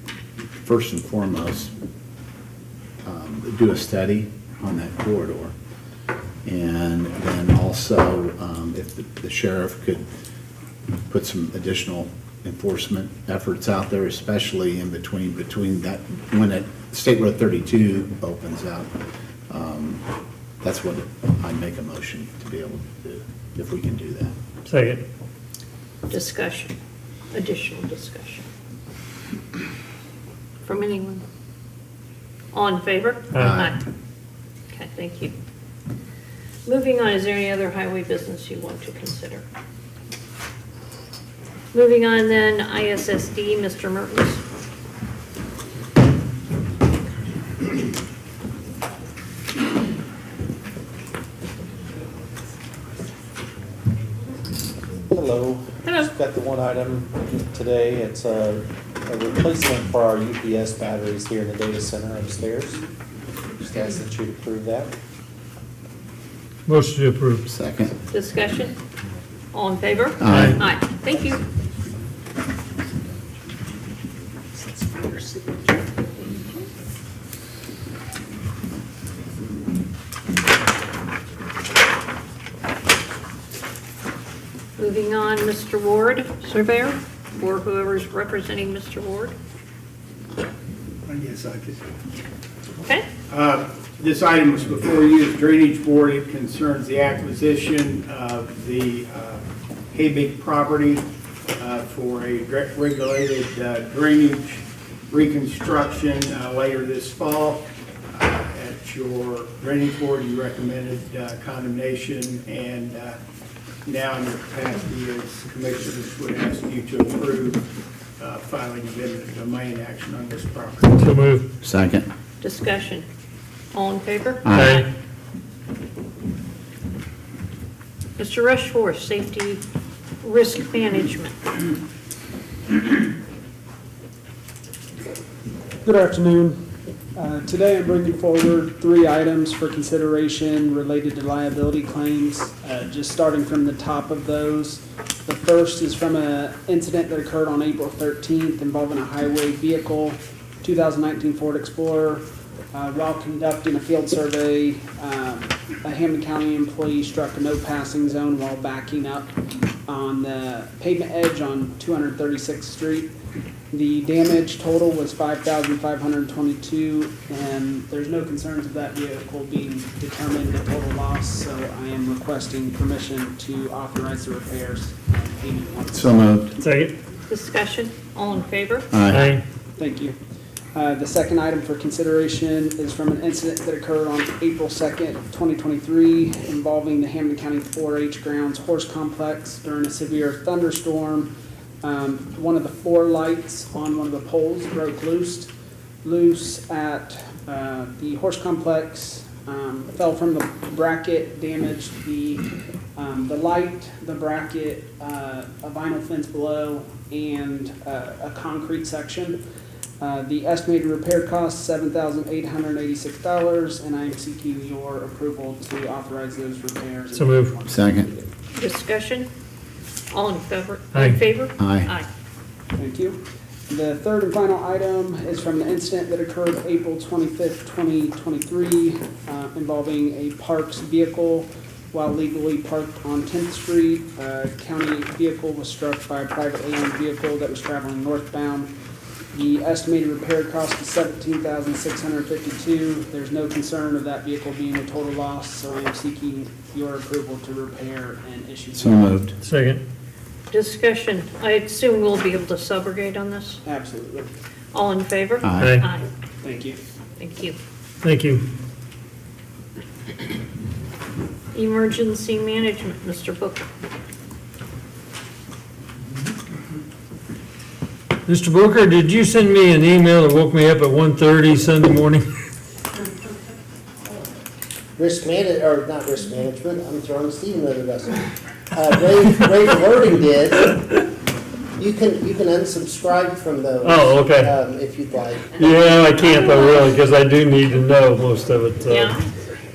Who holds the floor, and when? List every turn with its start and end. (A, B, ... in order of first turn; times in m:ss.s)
0:00.6-0:01.7 A
0:03.0-0:05.5 A
0:06.4-0:10.0 A
0:11.1-0:18.9 A
0:19.5-0:20.0 A
0:20.6-0:24.3 A
0:24.6-0:25.0 B
0:26.1-0:26.7 C
0:27.3-0:28.4 C
0:30.6-0:31.2 C
0:32.5-0:33.8 C
0:33.4-0:33.8 A
0:34.7-0:35.3 C
0:36.6-0:39.4 C
0:41.7-0:44.4 C
0:55.0-1:02.8 D
0:55.8-0:56.1 C
1:03.6-1:04.9 D
1:06.7-1:07.4 B
1:07.5-1:07.9 A
1:08.1-1:08.8 C
1:09.5-1:11.4 C
1:10.2-1:10.6 A
1:10.3-1:10.6 B
1:16.2-1:16.7 C
1:24.8-1:29.3 C
1:31.1-1:31.8 E
1:32.8-1:33.0 C
1:33.3-1:41.0 E
1:41.6-1:53.2 E
1:53.8-1:57.6 E
1:58.2-2:01.1 E
2:01.0-2:01.4 B
2:01.6-2:02.0 A
2:02.4-2:03.0 C
2:03.7-2:04.8 C
2:04.4-2:04.8 A
2:04.5-2:04.9 B
2:08.2-2:09.6 C
2:10.2-2:11.3 C
2:15.8-2:16.6 F
2:17.1-2:39.3 F
2:39.8-2:43.1 F
2:43.7-2:56.6 F
2:55.9-2:56.5 A
2:56.6-2:56.9 B
2:57.3-2:58.9 C
2:58.9-2:59.3 A
2:59.1-2:59.4 B
2:59.8-3:00.2 F
3:00.7-3:15.5 F
3:16.0-3:29.4 F
3:30.0-3:38.3 F
3:37.1-3:37.5 B
3:37.7-3:38.1 A
3:38.5-3:39.3 C
3:40.1-3:42.1 C
3:40.9-3:41.2 B
3:41.6-3:41.9 A
3:42.7-3:58.7 F
3:59.3-4:09.4 F
4:08.8-4:09.3 A
4:09.4-4:09.8 B
4:10.5-4:13.6 C
4:13.6-4:14.3 F
4:14.7-4:16.1 C
4:15.4-4:15.8 A
4:15.6-4:15.8 B
4:16.4-4:16.8 F
4:17.2-4:17.6 C
4:18.0-4:18.4 B
4:21.5-4:23.6 C
4:28.3-4:32.3 B
4:35.0-4:40.8 G
4:41.8-4:45.5 G
4:43.8-4:44.5 B
4:45.6-4:49.1 B
4:46.2-4:46.9 C
4:48.9-4:49.3 C